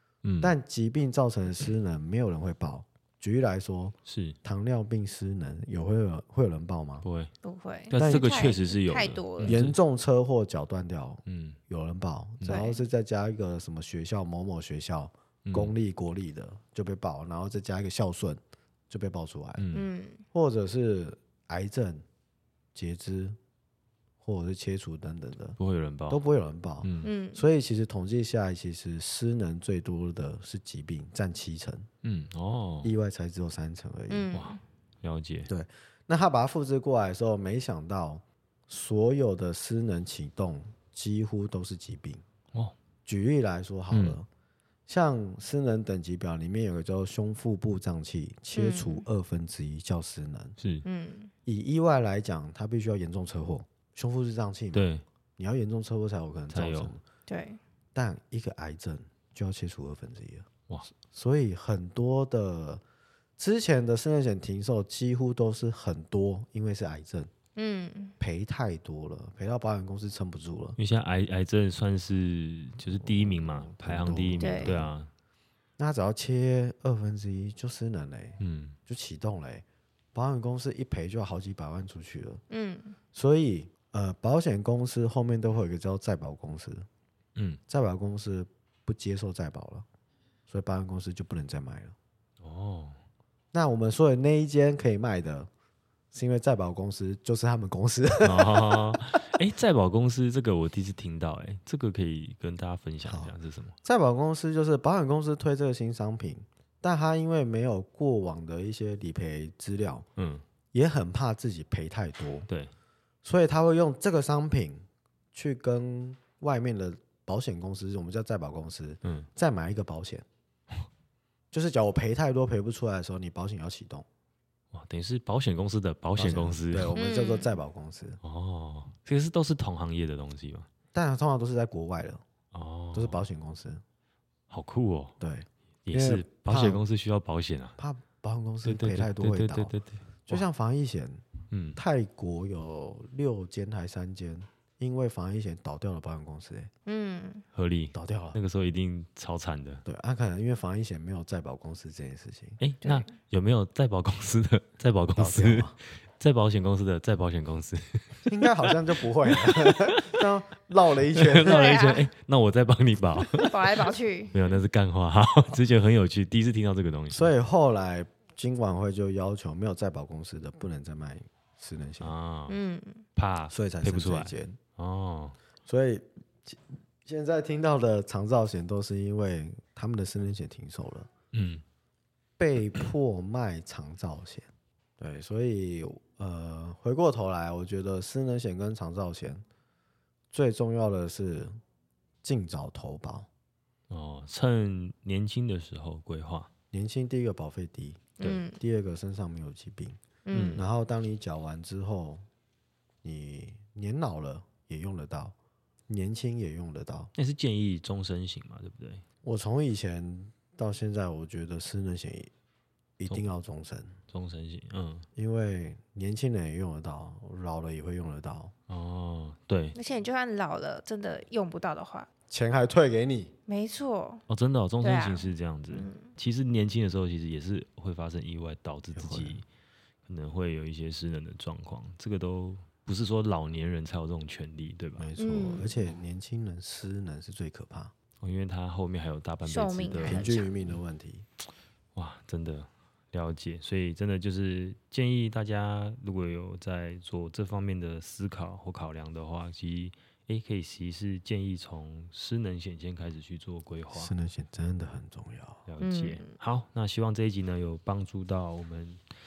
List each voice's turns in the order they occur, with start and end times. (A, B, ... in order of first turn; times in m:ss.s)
0:00.2-0:00.5 A
0:00.4-0:07.1 B
0:04.1-0:04.4 A
0:07.0-0:07.3 A
0:07.4-0:09.6 C
0:07.9-0:09.8 A
0:08.0-0:08.3 B
0:09.4-0:19.6 B
0:11.3-0:11.6 A
0:12.5-0:12.8 C
0:15.5-0:15.7 A
0:19.6-0:19.9 A
0:19.7-0:20.2 C
0:20.3-0:22.0 B
0:22.8-0:23.4 B
0:24.2-0:25.6 B
0:25.6-0:26.2 A
0:26.1-0:31.9 B
0:26.8-0:27.1 A
0:27.0-0:27.4 C
0:32.0-0:32.9 A
0:32.8-0:34.3 B
0:34.1-0:34.6 C
0:34.3-0:35.5 A
0:35.5-0:42.2 B
0:43.0-0:44.3 B
0:43.9-0:44.2 A
0:44.9-0:50.6 B
0:48.6-0:49.1 C
0:50.6-0:50.9 A
0:50.8-0:51.3 C
0:51.4-0:57.0 B
0:54.7-0:55.0 A
0:56.5-0:56.9 A
0:57.3-0:57.6 C
0:58.0-1:00.5 B
1:01.1-1:02.8 B
1:03.4-1:07.3 B
1:07.6-1:08.2 C
1:08.2-1:10.8 B
1:10.8-1:15.1 A
1:12.9-1:14.9 B
1:14.4-1:14.8 C
1:15.8-1:22.4 B
1:18.4-1:18.8 A
1:22.5-1:23.0 C
1:23.1-1:26.9 B
1:27.4-1:27.6 A
1:27.7-1:29.8 B
1:30.5-1:32.0 B
1:32.4-1:33.0 A
1:33.5-1:35.5 B
1:36.1-1:39.0 B
1:38.2-1:43.8 A
1:43.0-1:43.3 B
1:43.8-1:50.0 B
1:50.2-1:50.4 A
1:50.7-1:52.5 B
1:53.2-2:00.2 B
1:59.0-1:59.3 A
2:01.5-2:04.1 B
2:04.7-2:07.0 A
2:06.2-2:08.2 B
2:07.0-2:07.5 C
2:08.2-2:10.7 A
2:10.9-2:12.2 B
2:12.5-2:13.2 A
2:12.9-2:13.8 B
2:14.5-2:15.2 A
2:15.2-2:16.8 B
2:15.9-2:17.8 A
2:17.8-2:19.7 B
2:18.6-2:20.4 A
2:20.3-2:26.7 B
2:21.5-2:21.8 A
2:26.9-2:27.4 C
2:27.5-2:29.8 A
2:27.9-2:28.4 B
2:29.8-2:32.6 B
2:32.6-2:40.3 A
2:32.8-2:33.1 C
2:35.2-2:35.7 B
2:38.3-2:41.8 B
2:41.2-2:47.3 A
2:41.4-2:42.1 C
2:43.3-2:44.6 C
2:47.1-2:52.2 B
2:52.0-2:52.6 A
2:52.5-2:53.0 C
2:53.2-2:55.4 A
2:53.5-2:54.6 B
2:55.7-3:01.1 B
3:01.3-3:01.6 A
3:02.4-3:09.4 B
3:10.3-3:11.6 B
3:12.2-3:13.3 B
3:13.9-3:16.5 A
3:16.7-3:20.0 B
3:18.2-3:18.6 C
3:20.3-3:20.6 C
3:20.3-3:20.6 A
3:20.5-3:22.2 B
3:23.0-3:25.4 B
3:25.9-3:27.1 B
3:27.2-3:29.0 A
3:29.2-3:32.3 B
3:33.0-3:34.0 B
3:34.1-3:35.1 A
3:35.2-3:38.5 B
3:38.7-3:39.8 A
3:39.7-3:42.1 C
3:42.3-3:43.3 B
3:43.5-3:44.2 C
3:44.3-3:49.4 A
3:44.8-3:46.1 C
3:48.9-3:49.4 B
3:50.1-3:55.1 A
3:55.0-3:57.9 B
3:55.2-3:55.8 C
3:58.2-4:00.4 A
3:59.4-4:00.5 C
4:00.0-4:01.3 B
4:02.0-4:14.1 A
4:13.9-4:15.6 B
4:15.7-4:19.0 A
4:15.8-4:16.3 C